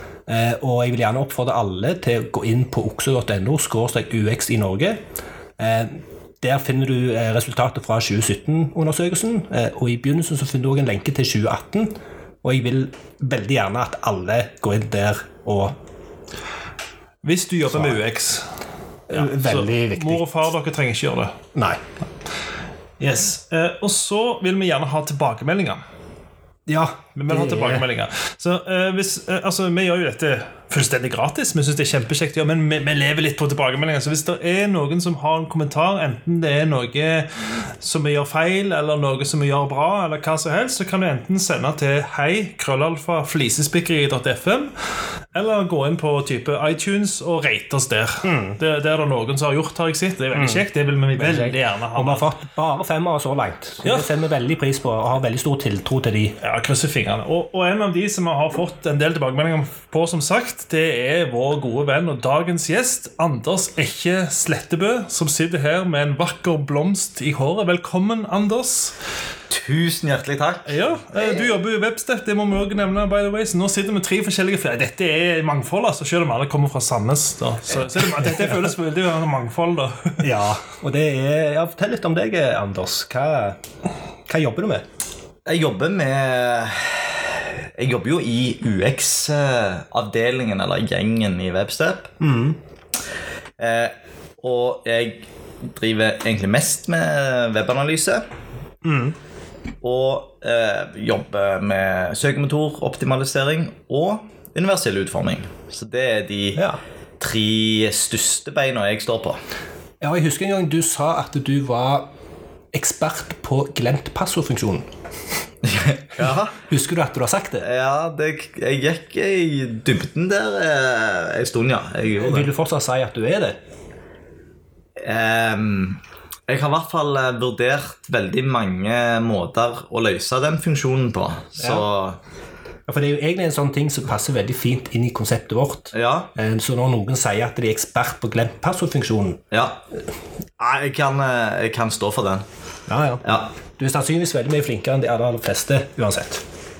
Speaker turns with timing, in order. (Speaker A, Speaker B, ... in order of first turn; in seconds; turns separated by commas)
Speaker A: 0.3-5.0, Speaker A: 5.6-15.8, Speaker B: 17.2-18.5, Speaker A: 17.7-18.0, Speaker A: 19.1-20.2, Speaker B: 19.1-21.4, Speaker A: 21.5-21.8, Speaker B: 23.0-25.8, Speaker A: 26.7-27.8, Speaker B: 27.1-52.2, Speaker A: 48.2-48.6, Speaker A: 50.3-50.6, Speaker A: 51.1-56.4, Speaker B: 53.8-54.1, Speaker B: 56.4-69.0, Speaker C: 69.5-70.8, Speaker B: 70.7-80.3, Speaker A: 77.8-78.7, Speaker A: 80.2-83.6, Speaker A: 84.2-84.8, Speaker C: 85.5-92.1, Speaker A: 92.2-92.6, Speaker C: 93.6-98.2, Speaker A: 98.8-99.2, Speaker C: 99.8-106.6, Speaker A: 106.5-106.8, Speaker C: 107.2-109.4, Speaker A: 110.0-112.1, Speaker A: 112.7-114.9, Speaker C: 115.6-116.5, Speaker A: 116.7-117.7, Speaker C: 117.6-122.5, Speaker A: 122.2-123.6, Speaker C: 125.0-132.2, Speaker A: 131.6-131.8, Speaker A: 132.9-139.4, Speaker C: 135.9-136.3, Speaker C: 139.5-139.8, Speaker C: 140.6-142.4, Speaker A: 142.9-143.2, Speaker C: 143.2-143.5, Speaker A: 143.8-146.4